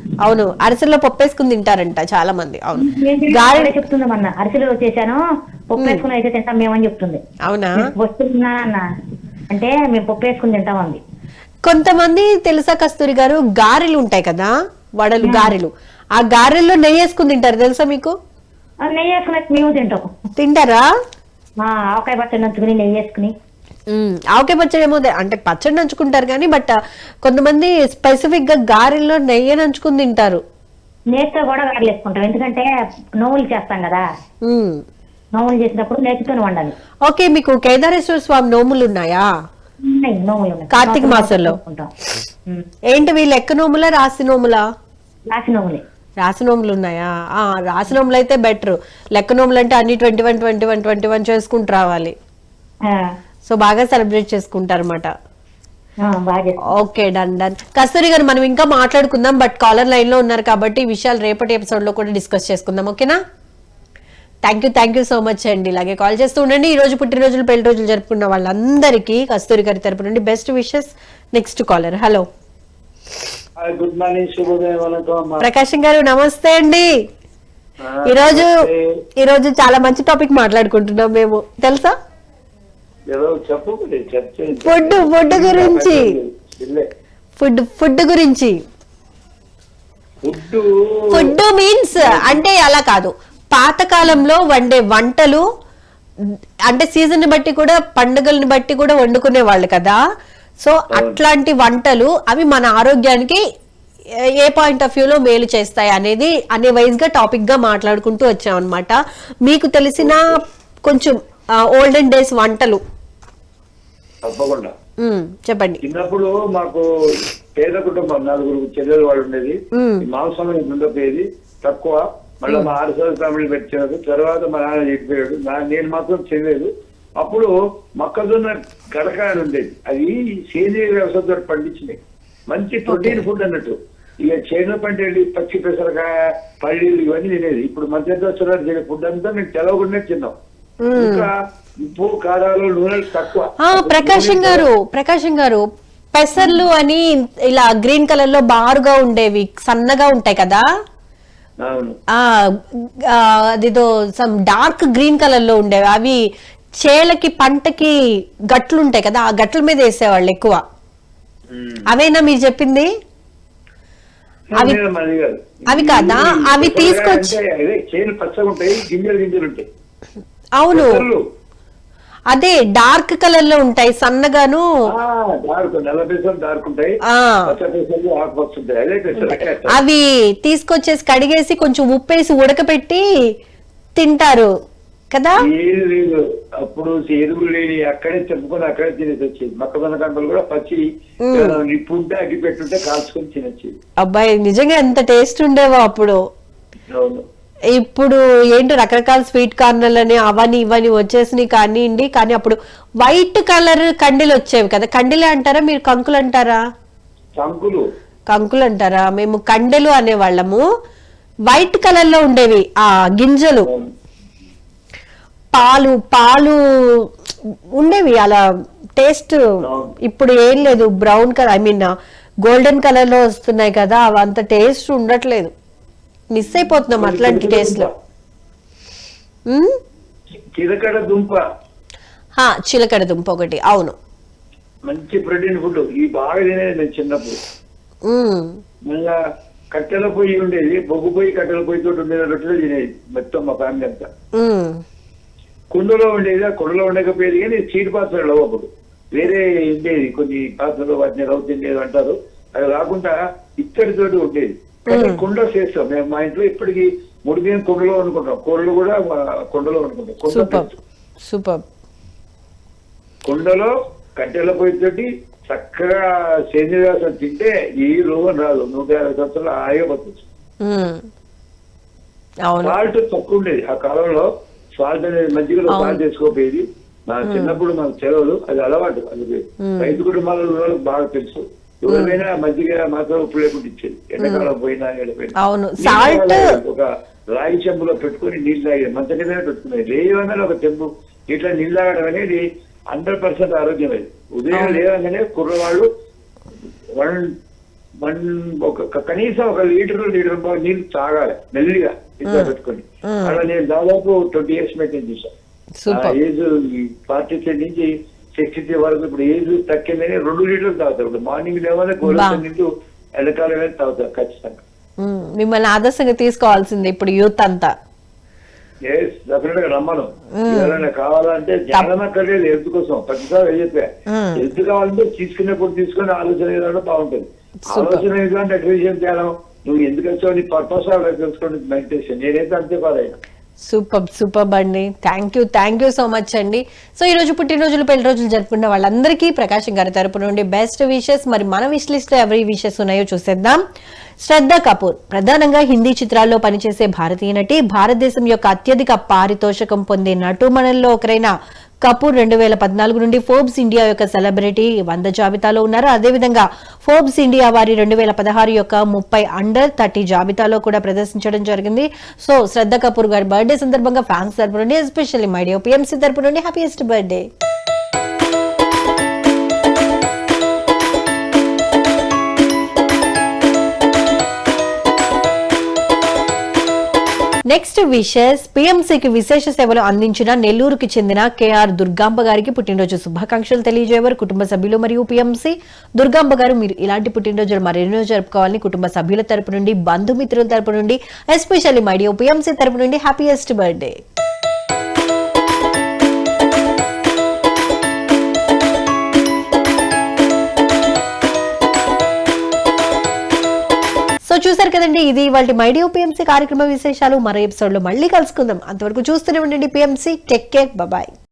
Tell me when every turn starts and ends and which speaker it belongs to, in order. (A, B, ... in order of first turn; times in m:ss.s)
0:00.2-0:03.8 A
0:02.8-0:05.2 B
0:05.7-0:07.2 B
0:07.4-0:07.8 A
0:07.8-0:08.8 B
0:09.5-0:11.0 B
0:11.6-0:18.1 A
0:15.2-0:15.5 B
0:18.8-0:20.1 B
0:20.4-0:20.8 A
0:21.6-0:23.3 B
0:23.9-0:30.4 A
0:31.1-0:32.7 B
0:33.2-0:34.0 B
0:34.4-0:34.8 A
0:35.4-0:36.7 B
0:37.1-0:39.2 A
0:39.8-0:41.9 B
0:40.7-0:41.6 A
0:42.9-0:44.6 A
0:45.3-0:45.8 B
0:46.2-0:52.1 A
0:52.8-0:53.1 B
0:53.4-0:55.1 A
0:56.0-0:56.6 B
0:56.7-1:03.2 A
1:04.4-1:12.2 A
1:13.6-1:15.4 C
1:15.4-1:16.9 A
1:17.8-1:18.8 C
1:18.0-1:18.5 A
1:19.2-1:21.9 A
1:23.1-1:26.9 C
1:24.6-1:26.1 A
1:27.4-1:28.5 A
1:30.2-1:31.4 C
1:31.1-1:35.4 A
1:32.0-1:32.4 C
1:36.7-1:40.0 A
1:40.6-1:43.4 A
1:40.9-1:41.2 C
1:44.4-1:52.8 A
1:50.0-1:50.4 C
1:54.2-1:54.7 C
1:55.0-1:55.8 A
1:55.8-1:56.8 C
1:57.6-2:12.0 C
1:59.7-2:00.0 A
2:02.5-2:02.7 A
2:12.5-2:16.1 C
2:12.9-2:13.2 A
2:16.6-2:20.3 C
2:20.8-2:21.3 A
2:21.0-2:24.6 C
2:23.6-2:25.6 A
2:26.1-2:30.6 A
2:31.6-2:32.0 C
2:32.1-2:36.2 A
2:36.8-2:37.9 A
2:38.5-2:40.6 A
2:41.5-2:41.8 C
2:41.9-2:42.9 A
2:44.5-2:49.6 C
2:45.7-2:47.4 A
2:50.6-2:51.0 A
2:50.7-2:51.2 C
2:52.3-2:54.6 A
2:54.9-2:59.8 C
2:57.1-2:57.6 A
2:59.2-3:03.0 A
3:04.0-3:04.5 A
3:05.1-3:05.4 A
3:05.4-3:13.7 C
3:11.2-3:11.6 A
3:14.0-3:16.2 A
3:16.9-3:17.2 C
3:17.7-3:26.6 A
3:27.4-3:27.8 C
3:28.3-3:30.6 A
3:31.5-3:33.7 A
3:33.6-3:33.9 C
3:35.5-3:37.1 A
3:37.8-3:38.4 A
3:39.0-3:39.4 A
3:39.6-3:39.9 C
3:40.0-3:41.9 A
3:42.4-3:45.5 A
3:46.3-3:47.9 A
3:47.0-3:47.9 C
3:49.5-3:49.8 A
3:50.6-3:51.4 C
3:52.4-3:53.9 A
3:54.9-3:57.4 C
3:58.0-3:58.6 A
3:58.8-3:59.2 C
3:59.7-4:04.1 C
4:04.4-4:04.8 A
4:05.7-4:20.8 C
4:14.9-4:15.2 A
4:20.3-4:20.7 A
4:21.2-4:21.6 A
4:23.2-4:30.2 C
4:30.6-4:31.1 A
4:32.5-4:32.8 A
4:32.6-4:55.9 C
4:35.7-4:36.0 A
4:37.2-4:37.6 A
4:39.6-4:40.0 A
4:41.9-4:42.2 A
4:44.2-4:44.5 A
4:45.4-4:46.4 A
4:54.5-4:54.8 A
4:57.0-4:57.3 C
4:58.0-5:05.3 C
5:02.3-5:02.5 A
5:03.1-5:03.4 A
5:05.8-5:06.2 A
5:05.9-5:12.7 C
5:12.0-5:12.4 A
5:13.2-5:14.6 C
5:15.0-5:17.7 A
5:18.9-5:33.2 C
5:20.4-5:20.8 A
5:24.1-5:24.4 A
5:27.7-5:28.0 A
5:33.6-5:43.6 A
5:44.2-5:51.3 A
5:51.8-6:07.3 A
6:17.5-6:34.0 A
6:44.2-6:51.1 A